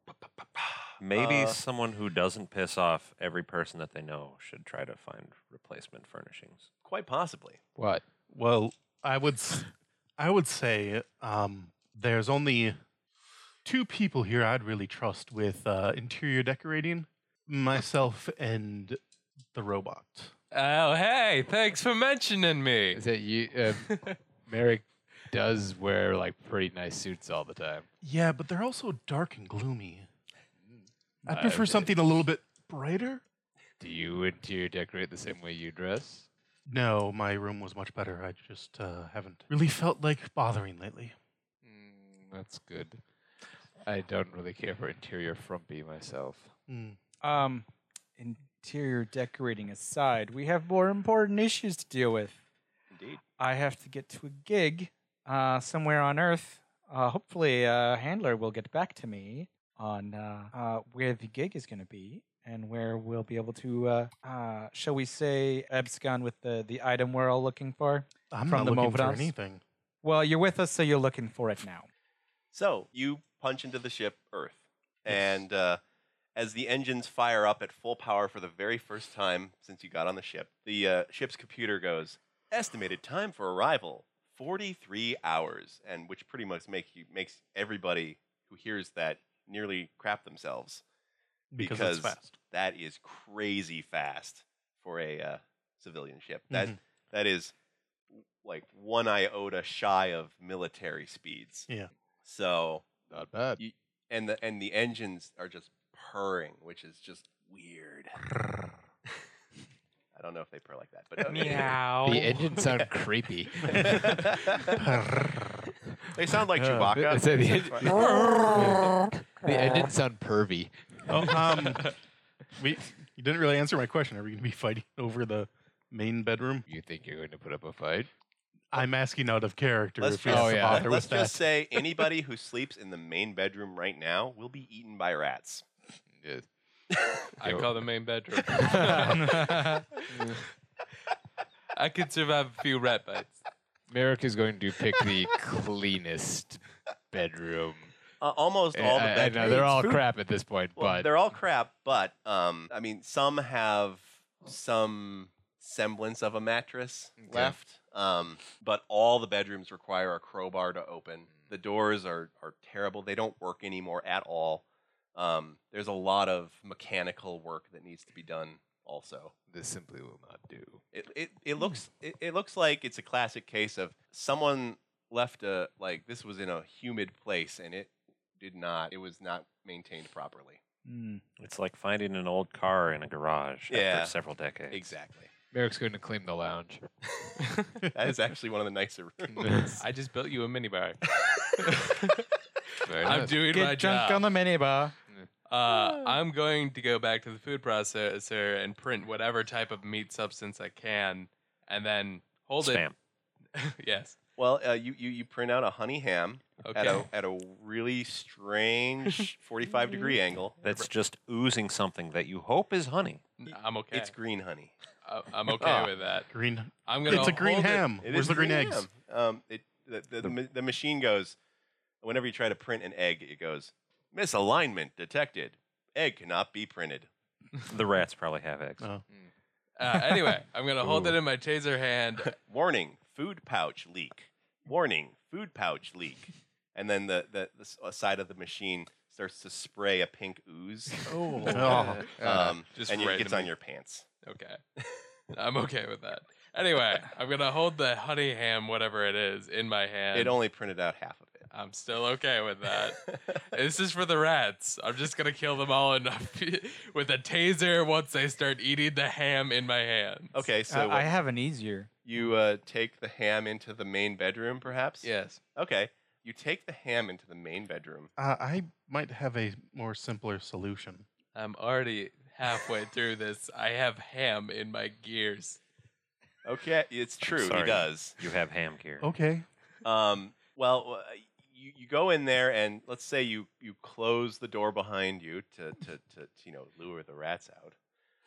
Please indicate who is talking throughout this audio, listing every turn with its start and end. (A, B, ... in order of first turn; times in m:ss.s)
0:00.2-0:01.6 A
0:01.0-0:06.7 B
0:06.8-0:07.6 A
0:07.8-0:08.0 C
0:08.3-0:12.8 D
0:13.6-0:19.0 D
0:19.5-0:20.3 D
0:20.5-0:23.0 E
0:22.9-0:27.9 C
0:23.8-0:24.2 E
0:28.0-0:30.1 D
0:30.6-0:32.0 C
0:31.3-0:33.2 D
0:33.8-0:36.3 C
0:36.7-0:41.2 D
0:41.6-0:43.0 C
0:43.8-0:46.5 C
0:46.7-0:47.0 D
0:47.2-0:47.7 F
0:48.2-0:52.4 F
0:52.9-0:53.2 A
0:53.4-1:09.3 F
1:08.3-1:09.6 D
1:10.0-1:11.9 F
1:12.5-1:15.8 A
1:16.4-1:30.8 A
1:31.5-1:32.4 D
1:31.6-1:37.5 A
1:36.5-1:36.8 D
1:38.1-1:41.7 A
1:42.2-1:42.9 A
1:43.1-1:43.6 C
1:43.6-1:48.2 A
1:50.1-1:51.8 A
1:51.3-1:52.3 E
1:52.0-1:54.2 C
1:53.7-1:54.8 A
1:54.8-1:55.7 D
1:56.1-1:58.1 A
1:56.6-2:01.6 C
2:01.1-2:01.9 D
2:02.6-2:06.7 D
2:06.7-2:08.1 C
2:08.7-2:11.4 D
2:10.0-2:15.6 A
2:10.3-2:10.9 C
2:16.1-2:16.5 C
2:17.4-2:19.8 E
2:17.4-2:17.7 C
2:18.4-2:20.4 C
2:19.2-2:19.8 F
2:21.8-2:23.4 E
2:23.9-2:28.0 C
2:28.2-2:30.0 A
2:28.7-2:31.1 C
2:30.8-2:49.3 A
2:37.2-2:37.6 C
2:49.5-2:50.8 C
2:50.9-3:00.6 A
3:00.8-3:01.2 F
3:01.4-3:04.9 B
3:03.7-3:04.2 A
3:04.7-3:05.3 A
3:05.5-3:06.8 C
3:07.9-3:09.8 A
3:09.3-3:09.8 C
3:09.8-3:11.0 E
3:11.6-3:12.2 E
3:12.8-3:13.4 C
3:13.0-3:14.3 E
3:13.5-3:15.0 F
3:15.5-3:22.8 E
3:22.6-3:23.0 B
3:23.6-3:24.2 E
3:24.4-3:30.6 A
3:26.6-3:27.1 E
3:30.6-3:33.2 B
3:33.4-3:34.1 E
3:33.9-3:34.7 A
3:35.1-3:36.3 E
3:35.6-3:35.9 A
3:36.3-3:38.9 D
3:36.9-3:37.9 E
3:37.1-3:37.4 A
3:38.0-3:41.4 A
3:42.0-3:47.1 A
3:47.7-3:48.9 B
3:49.8-3:52.4 E
3:52.3-4:04.1 A
4:01.2-4:02.1 D
4:01.5-4:03.5 E
4:01.6-4:02.6 C
4:04.2-4:04.6 E
4:05.3-4:10.4 E
4:10.1-4:11.5 A
4:11.5-4:20.4 E
4:20.3-4:21.1 A
4:20.7-4:21.9 F
4:22.0-4:28.1 A
4:25.0-4:25.4 E
4:28.2-4:31.1 D
4:31.4-4:35.6 E
4:36.4-4:38.2 A
4:37.2-4:39.1 B
4:39.0-4:39.5 D
4:39.8-4:47.8 A